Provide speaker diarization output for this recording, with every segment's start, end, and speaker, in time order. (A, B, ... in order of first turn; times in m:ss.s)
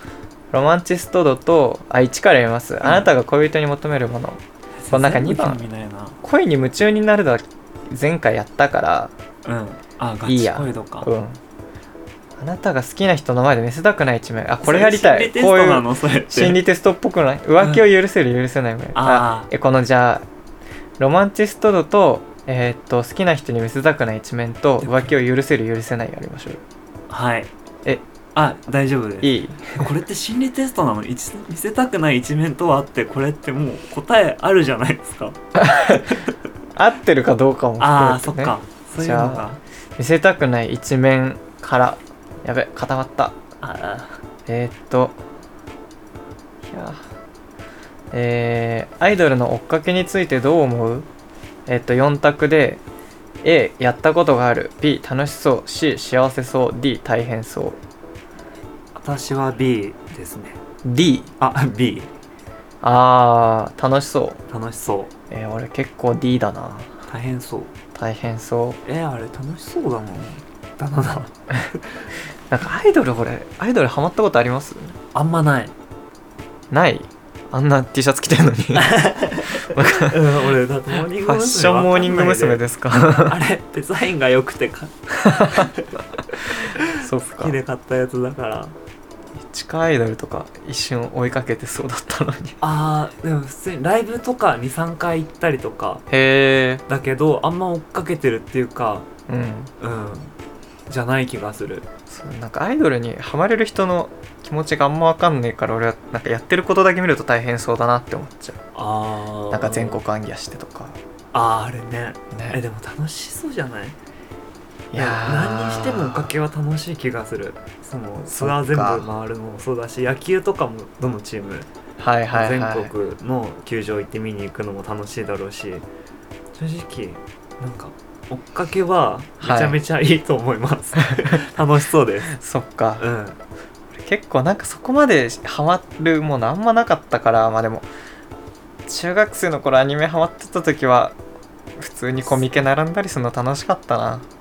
0:00.5-0:05.6 A
0:02.8-0:03.1 B
0:04.8-0:06.2 B
0:06.2-0:09.1 A
0:09.4-0:11.1 B
0:10.3-0:11.4 A
0:12.4-0:20.2 A
0:14.6-0:16.6 B
0:19.0-0:19.5 B
0:21.0-0:26.6 A
0:24.8-0:25.1 B
0:27.1-0:27.5 B
0:28.4-0:35.4 B
0:29.2-0:29.9 A
0:35.6-0:36.2 A
0:36.8-0:43.4 A
0:37.8-0:39.6 B
0:43.6-0:44.2 B
0:44.5-0:45.2 A
0:46.6-0:47.0 A
0:48.1-0:51.1 A
0:51.7-0:52.8 A
0:53.4-0:57.8 A
0:59.0-1:00.6 B
1:00.8-1:01.3 A
1:01.4-1:02.1 B
1:02.8-1:04.4 A
1:04.5-1:05.1 B
1:05.3-1:07.0 A
1:07.1-1:07.7 B
1:07.9-1:08.8 A
1:08.8-1:12.0 B
1:12.5-1:15.0 A
1:15.1-1:15.7 B
1:16.7-1:19.0 A
1:18.8-1:22.6 B
1:19.5-1:20.3 A
1:20.9-1:23.4 A
1:23.2-1:28.8 B
1:25.3-1:25.7 A
1:26.7-1:27.6 A
1:29.4-1:32.6 A
1:32.6-1:36.0 B
1:36.1-1:36.8 A
1:36.9-1:39.1 B
1:39.3-1:39.7 A
1:39.8-1:40.4 B
1:40.9-1:41.9 B
1:42.1-1:48.6 A
1:48.8-1:50.0 B
1:49.5-1:51.0 A
1:51.3-1:54.0 B
1:52.3-1:52.6 A
1:54.9-1:56.3 A
1:55.0-2:01.7 B
1:58.3-1:59.1 A
2:02.0-2:02.9 A
2:02.3-2:05.9 B
2:06.6-2:12.4 B
2:09.4-2:09.8 A
2:11.1-2:11.4 A
2:12.3-2:13.1 A
2:13.0-2:13.4 B
2:13.9-2:17.9 A
2:18.9-2:21.2 A
2:21.8-2:24.3 A